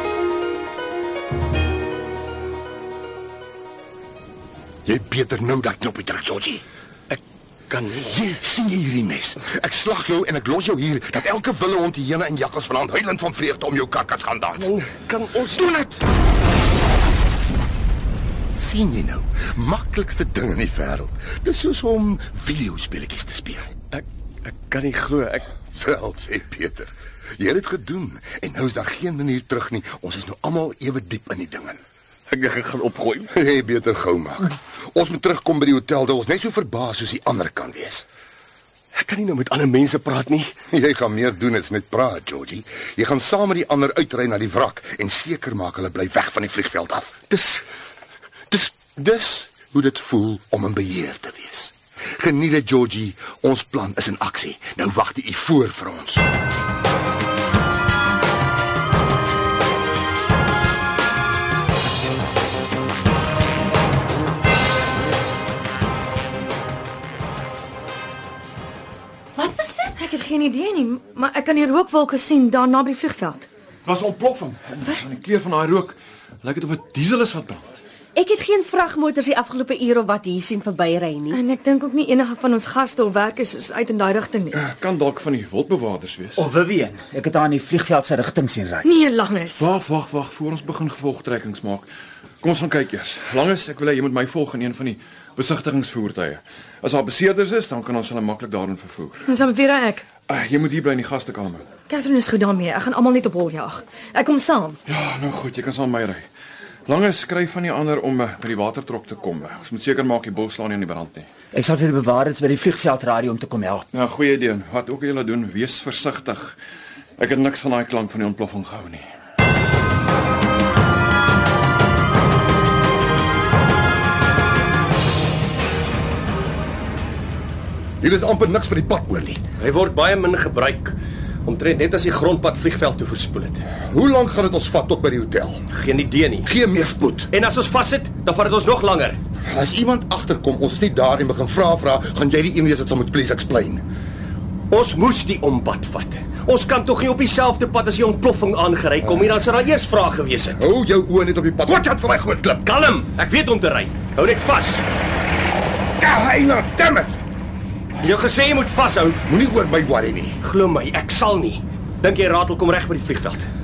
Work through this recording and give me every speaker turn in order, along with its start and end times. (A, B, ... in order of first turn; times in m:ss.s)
0:04.8-0:06.6 A
0:07.1-0:08.2 B
0:08.1-0:14.7 A
0:14.6-0:16.0 B
0:18.6-0:23.7 A
0:23.9-0:25.6 B
0:25.7-0:31.8 A
0:32.3-0:33.3 B
0:33.3-0:38.0 A
0:38.9-0:40.6 B
0:40.7-0:47.2 A
0:47.3-0:47.6 B
0:48.5-0:49.0 B
0:48.9-0:56.2 A
1:09.4-1:10.0 C
1:10.0-1:13.5 D
1:13.8-1:17.8 E
1:18.1-1:21.4 C
1:21.3-1:24.6 D
1:24.5-1:26.5 E
1:26.4-1:28.8 F
1:28.8-1:29.7 D
1:29.6-1:31.9 E
1:32.4-1:39.3 E
1:39.2-1:40.1 D
1:40.3-1:41.7 E
1:41.9-1:44.8 D
1:44.9-1:46.2 E
1:46.9-1:51.3 E
1:51.5-1:53.8 F
1:53.9-1:56.6 E
1:57.2-1:59.0 E
2:08.0-2:09.4 A
2:09.6-2:13.7 B
2:13.9-2:15.6 A
2:15.7-2:16.5 B
2:16.4-2:17.3 A
2:17.3-2:19.2 B
2:19.4-2:23.8 A
2:24.7-2:30.6 B
2:30.6-2:32.7 A
2:32.6-2:34.8 B
2:36.0-2:37.2 A
2:38.0-2:39.2 B
2:39.2-2:40.4 A
2:40.4-2:43.5 B